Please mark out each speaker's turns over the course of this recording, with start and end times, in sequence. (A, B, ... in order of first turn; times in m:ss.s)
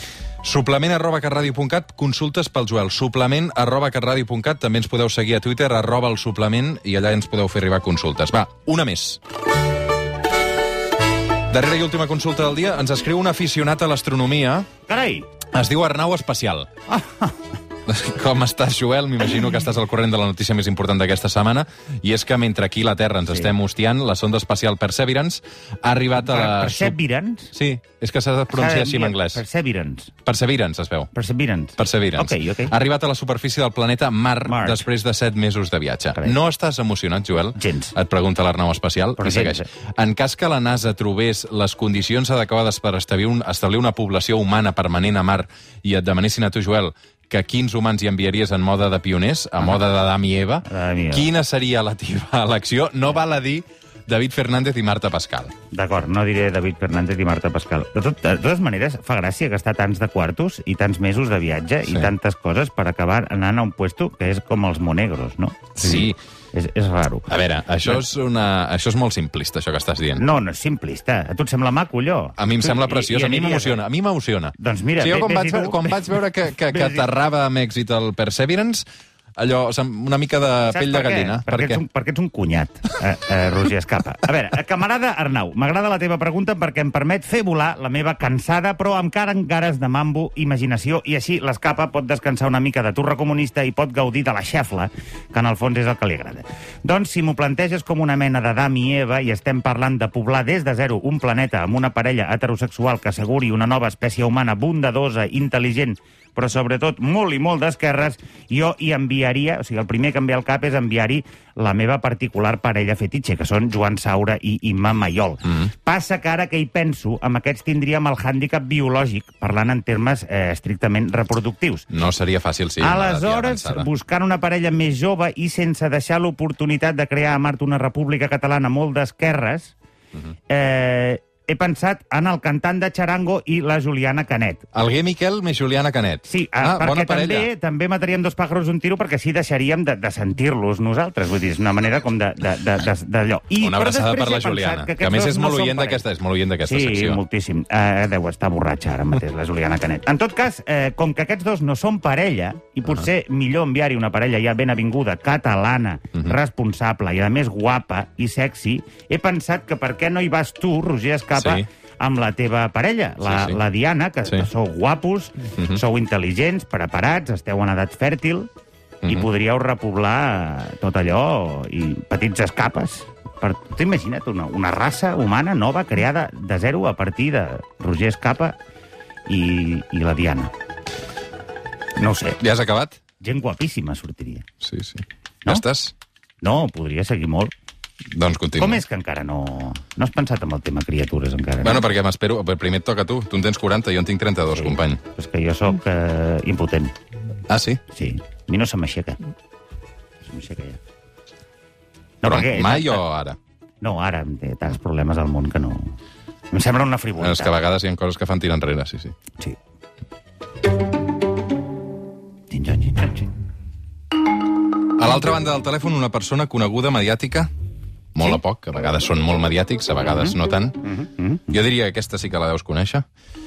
0:00.4-0:09.2 A
0:11.5-0:14.7 A
0:14.9-0:15.3 B
0:15.5-0:16.7 A
0:16.9-0:17.4 B
0:17.8-0:27.0 A
0:26.2-0:27.5 B
0:27.5-0:29.4 A
0:28.5-0:30.1 B
0:30.2-0:31.1 A
0:31.1-0:32.7 B
0:31.8-0:55.5 A
0:34.4-0:34.9 B
0:37.6-0:37.9 B
0:39.2-0:39.7 B
0:50.6-0:51.3 B
0:55.7-1:07.3 B
1:05.8-1:06.2 A
1:07.3-1:10.2 A
1:10.2-1:13.8 B
1:12.4-1:18.8 A
1:14.6-1:16.1 B
1:16.7-1:17.0 B
1:19.4-1:21.8 A
1:20.7-2:01.9 B
2:01.9-2:03.9 A
2:02.8-2:09.7 B
2:10.5-2:14.7 B
2:14.7-2:17.5 A
2:16.2-2:26.0 B
2:23.6-2:27.2 A
2:26.6-2:48.5 B
2:41.4-2:41.7 A
2:43.2-2:43.6 A
2:49.0-2:49.3 A
2:49.0-2:58.6 B
2:59.2-3:00.5 B
3:02.0-3:02.4 B
3:02.4-3:03.0 A
3:03.2-3:04.4 B
3:04.6-3:05.9 A
3:06.4-3:07.5 B
3:08.1-3:08.8 A
3:08.6-3:11.8 B
3:11.6-3:15.0 A
3:14.6-3:16.9 B
3:17.5-3:17.8 A
3:17.9-3:19.2 B
3:20.2-3:20.8 B
3:22.2-3:23.0 B
3:22.2-3:23.4 A
3:23.8-3:26.0 B
3:26.5-3:27.5 B
3:27.2-3:29.1 A
3:32.5-3:33.3 B
3:35.0-3:37.5 A
3:38.1-3:40.8 A
3:40.1-3:41.4 B
3:41.5-3:43.0 A